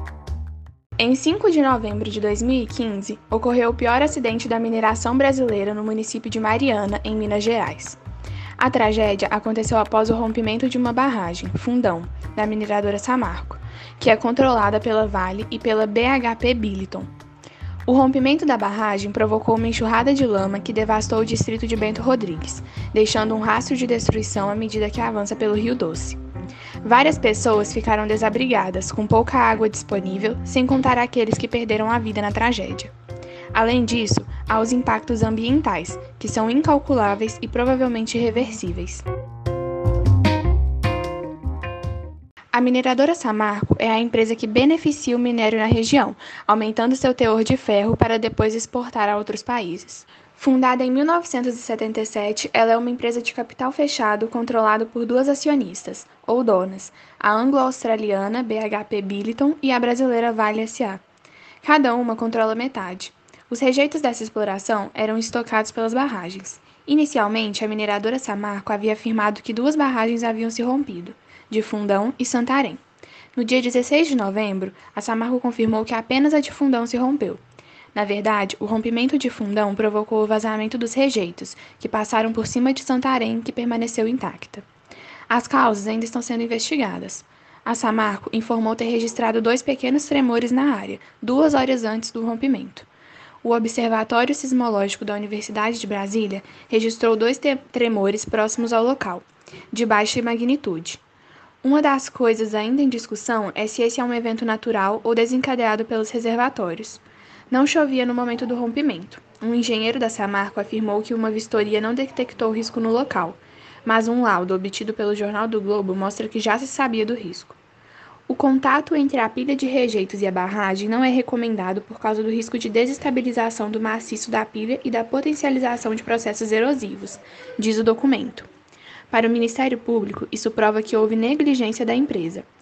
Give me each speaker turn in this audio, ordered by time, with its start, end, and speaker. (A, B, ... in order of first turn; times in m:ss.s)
0:01.0-0:08.0 A
0:08.6-0:17.1 A
0:17.9-0:26.2 A
0:26.8-0:32.9 A
0:33.5-0:39.1 A
0:42.5-1:01.0 A
1:01.6-1:12.8 A
1:13.4-1:17.4 A
1:17.9-1:24.6 A
1:25.3-1:32.9 A
1:33.4-1:41.0 A
1:41.6-1:57.6 A
1:58.3-2:08.5 A
2:09.1-2:12.5 A